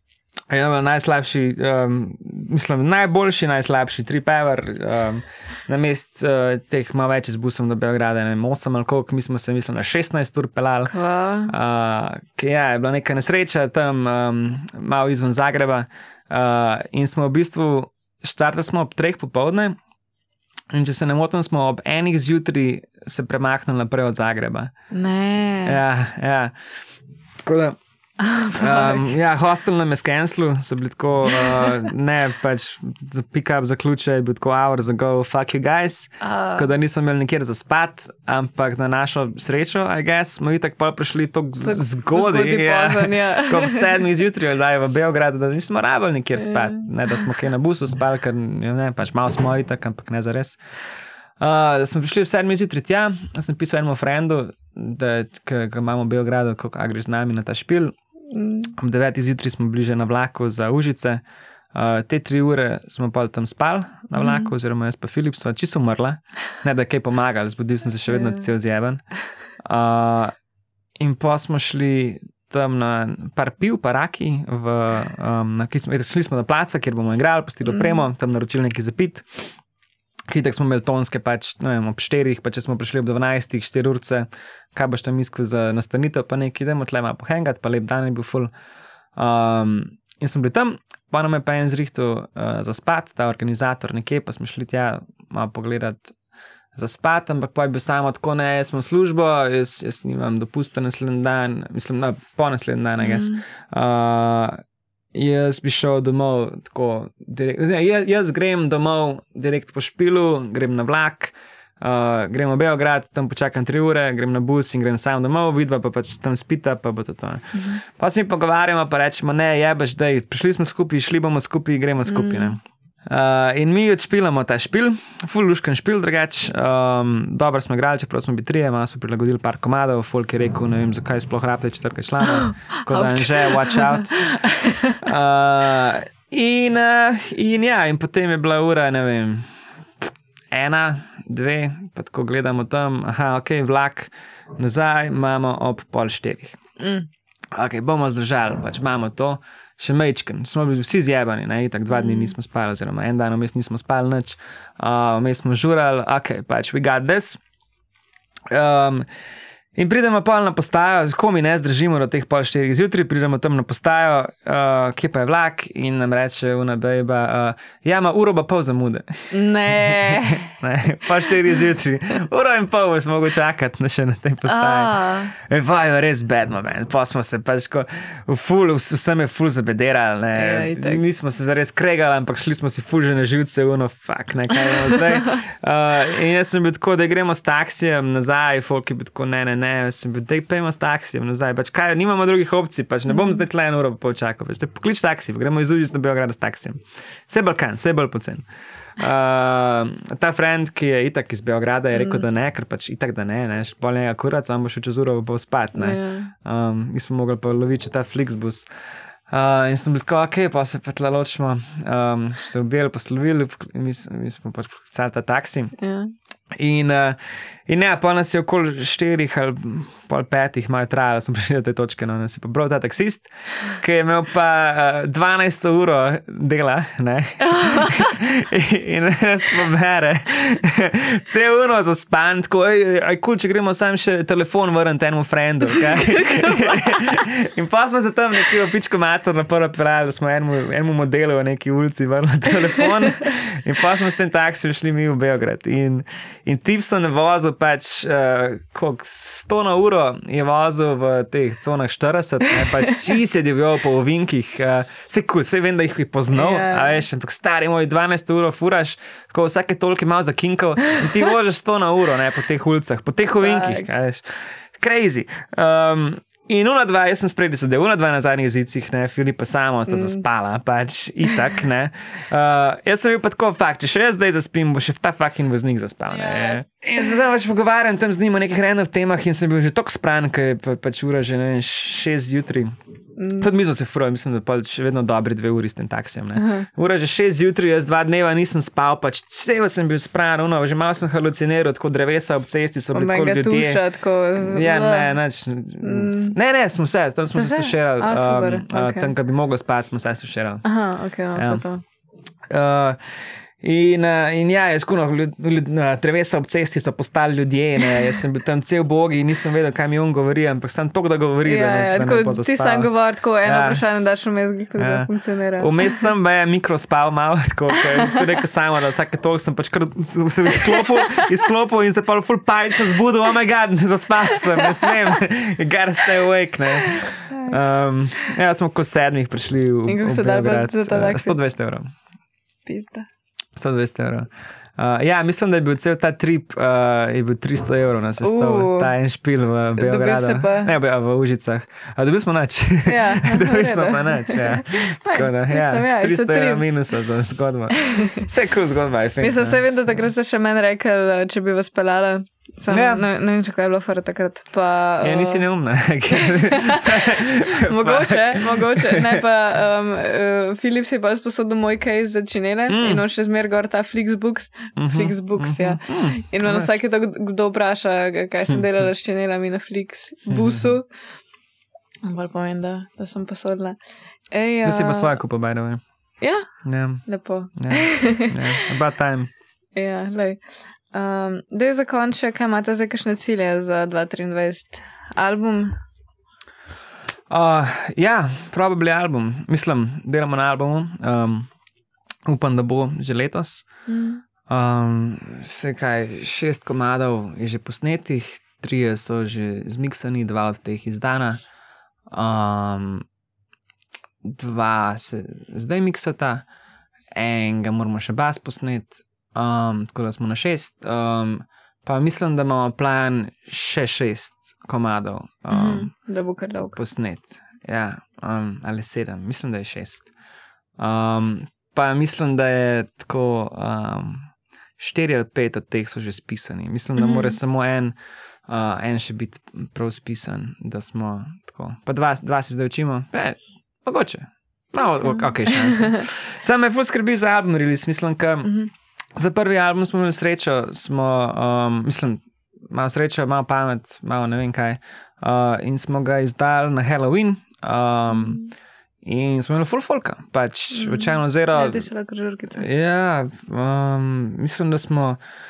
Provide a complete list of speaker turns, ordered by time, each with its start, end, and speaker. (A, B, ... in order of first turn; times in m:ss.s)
0:00.5-0:10.9 A
0:10.8-0:11.5 B
0:11.5-0:19.8 A
0:20.7-0:24.7 A
0:24.9-0:25.8 B
0:25.6-0:26.5 A
0:27.4-0:27.8 A
0:28.2-0:29.1 B
0:28.5-0:50.6 A
0:31.3-0:31.8 B
0:36.2-0:36.7 B
0:41.6-0:44.0 B
0:46.4-0:46.9 B
0:51.4-0:57.9 A
0:58.3-0:58.7 B
0:58.7-1:01.2 A
1:01.7-1:09.0 A
1:04.2-1:04.5 B
1:08.1-1:08.5 B
1:09.6-1:10.3 A
1:11.0-1:19.5 A
1:17.7-1:18.0 B
1:20.3-1:28.5 A
1:29.2-1:36.1 A
1:36.7-1:44.6 A
1:43.0-1:43.4 B
1:45.1-2:14.2 A
1:57.5-1:57.8 B
2:02.0-2:02.6 B
2:12.2-2:15.0 B
2:15.0-2:26.6 A
2:26.8-2:27.1 B
2:27.5-2:37.4 A
2:31.9-2:32.3 B
2:38.5-2:39.1 A
2:39.7-3:18.4 A
2:49.3-2:50.6 B
2:54.4-2:55.3 B
3:00.3-3:01.0 B
3:13.1-3:13.4 B
3:19.0-3:28.6 A
3:21.9-3:22.2 B
3:25.7-3:26.3 B
3:29.3-3:35.7 A
3:35.8-3:36.1 B
3:36.5-4:42.7 A
3:47.4-3:48.1 B
3:56.1-3:56.9 B
4:16.3-4:17.0 B
4:23.4-4:23.9 B
4:29.9-4:30.2 B
4:36.1-4:36.6 B
4:43.2-4:43.5 B
4:43.4-4:53.8 A
4:46.4-4:46.7 B
4:52.9-4:55.1 B
4:54.4-5:00.6 A
4:55.8-4:56.4 B
4:57.3-4:59.1 B
5:00.6-5:01.8 B
5:01.3-5:01.6 A
5:02.5-5:12.9 A
5:11.4-5:15.9 B
5:13.4-5:13.8 A
5:14.8-5:31.9 A
5:20.6-5:21.2 B
5:24.6-5:25.1 B
5:26.8-5:27.6 B
5:29.9-5:31.4 B
5:32.6-5:33.1 B
5:33.6-5:49.6 A
5:38.2-5:38.9 B
5:39.8-5:40.7 B
5:42.8-5:46.6 B
5:47.8-5:48.3 B
5:49.2-5:55.4 B
5:52.7-5:53.0 A
5:55.0-5:59.2 A
5:56.1-6:10.9 B
6:02.7-6:03.0 A
6:04.8-6:06.7 A
6:10.3-6:10.8 A
6:12.0-6:13.8 B
6:14.3-6:15.1 B
6:14.6-6:15.8 A
6:16.2-6:16.5 B
6:16.6-6:17.0 A
6:17.0-6:18.6 B
6:17.6-6:19.3 A
6:19.8-6:25.8 B
6:27.3-6:31.5 A
6:32.2-6:33.7 A
6:33.9-6:34.2 B
6:34.5-6:41.4 A
6:42.1-6:43.0 A
6:44.2-6:46.4 A
6:47.1-6:55.9 A
6:55.5-6:56.8 B
6:56.7-7:00.1 A
7:00.8-7:18.6 A
7:07.0-7:07.4 B
7:15.0-7:16.0 B
7:19.2-7:28.4 A
7:28.1-7:28.5 B
7:29.0-7:31.9 A
7:30.7-7:32.6 B
7:32.5-7:35.2 A